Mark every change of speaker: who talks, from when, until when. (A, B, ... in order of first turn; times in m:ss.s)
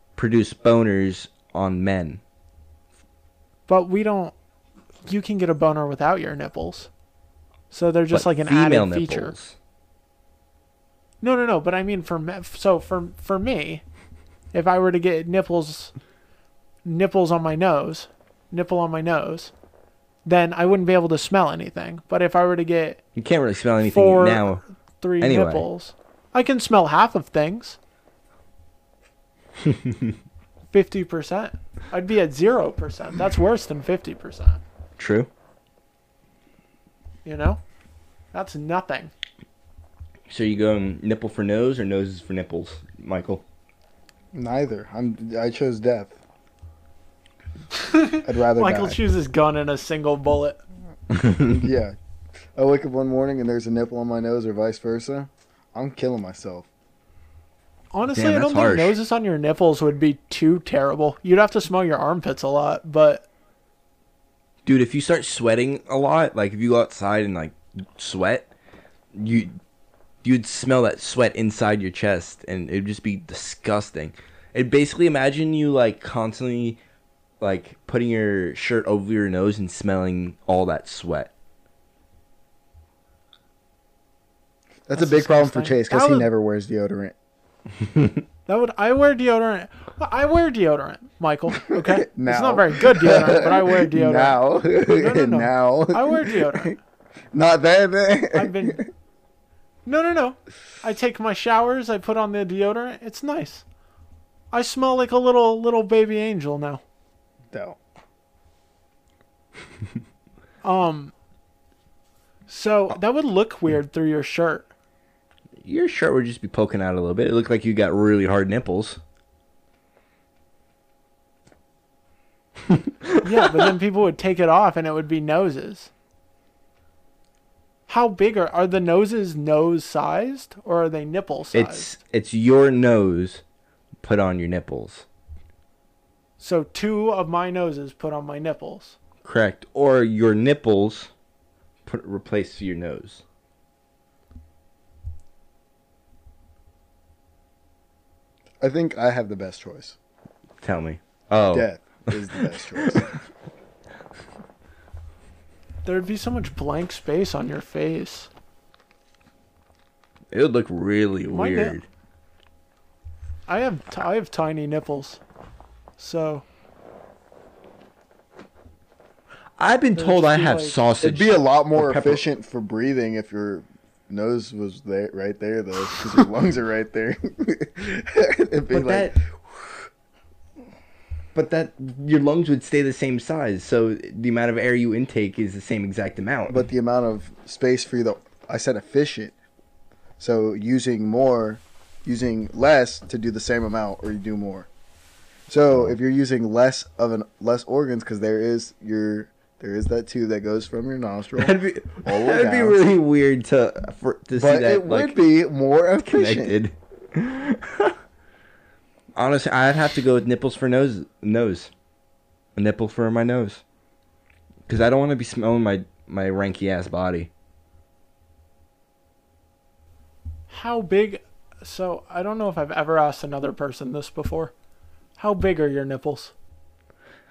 0:00.2-0:02.2 A
0:03.7-0:04.3 B
0:05.0-0:06.9 B
0:07.7-0:09.3 B
0:08.1-0:09.5 A
0:11.2-0:13.8 B
0:14.5-0:15.9 B
0:16.8-0:19.5 B
0:20.2-0:23.0 B
0:23.2-0:24.6 A
0:23.8-0:27.8 B
0:25.2-0:25.7 A
0:29.6-0:30.1 A
0:30.7-0:34.6 B
0:35.0-0:35.3 A
0:37.2-0:37.6 B
0:38.3-0:39.1 B
0:40.3-0:43.4 A
0:44.3-0:46.2 C
0:47.7-0:50.6 B
0:48.2-0:49.0 C
0:51.1-0:51.6 A
0:51.4-0:52.0 C
0:52.5-0:56.7 C
0:57.9-1:03.3 B
0:58.1-0:59.0 A
1:04.6-1:08.5 A
1:09.1-1:09.6 A
1:10.2-1:16.8 A
1:17.4-1:21.3 A
1:24.9-1:27.1 C
1:24.9-1:26.3 B
1:28.4-1:36.8 B
1:31.6-1:36.8 C
1:37.3-1:38.9 C
1:38.3-1:38.8 B
1:39.8-1:43.6 B
1:44.5-1:46.8 B
1:47.5-1:47.8 C
1:50.6-1:51.1 B
1:52.5-1:54.7 B
1:55.6-1:59.0 A
2:02.7-2:03.6 A
2:03.2-2:05.9 B
2:07.9-2:11.9 B
2:11.5-2:13.4 A
2:14.0-2:15.0 A
2:16.4-2:19.0 B
2:19.2-2:21.1 A
2:21.8-2:23.2 A
2:28.6-2:30.0 C
2:30.6-2:33.0 A
2:31.5-2:33.2 C
2:35.8-2:38.3 B
2:40.3-2:41.8 A
2:41.3-2:41.8 B
2:43.5-2:45.2 B
2:46.0-2:46.4 B
2:49.6-2:52.2 A
2:50.0-2:50.8 B
2:51.0-2:59.2 C
2:58.7-2:59.1 A
3:01.3-3:06.6 A
3:06.5-3:09.3 C
3:10.2-3:14.7 C
3:15.5-3:22.8 C
3:21.4-3:25.2 A
3:24.4-3:26.5 C
3:26.0-3:28.0 A
3:29.2-3:31.7 A
3:32.6-3:33.6 A
3:34.7-3:37.3 A
3:40.5-3:44.5 B
3:45.2-3:46.3 B